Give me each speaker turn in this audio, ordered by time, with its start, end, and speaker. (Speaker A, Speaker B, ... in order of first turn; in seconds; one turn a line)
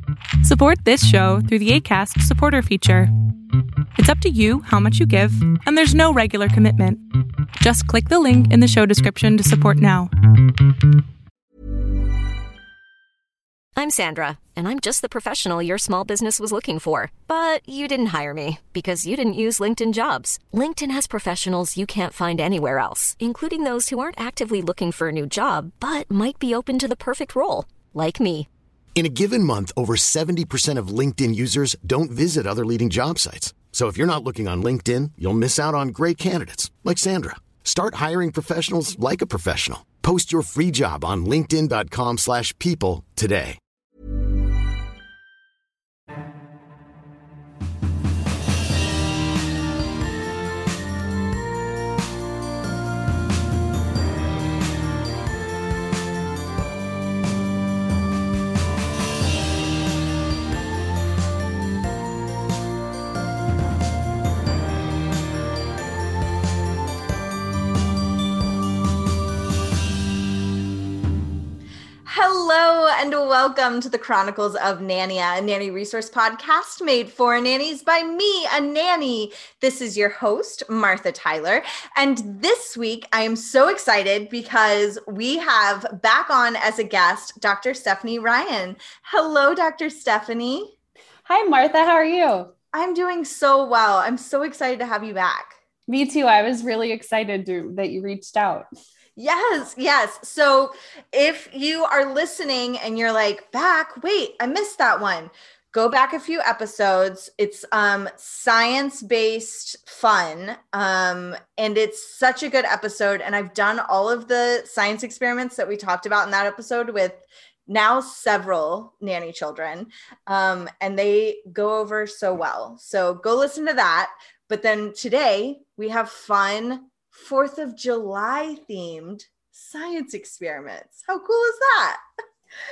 Speaker A: 0.4-3.1
Speaker A: 4.0-7.0
Speaker A: 7.6-10.1
Speaker B: 13.8-28.5
Speaker C: 28.9-43.6
Speaker D: 72.0-90.7
Speaker E: 91.2-92.5
Speaker D: 92.7-95.6
Speaker E: 95.9-98.7
Speaker D: 99.2-132.0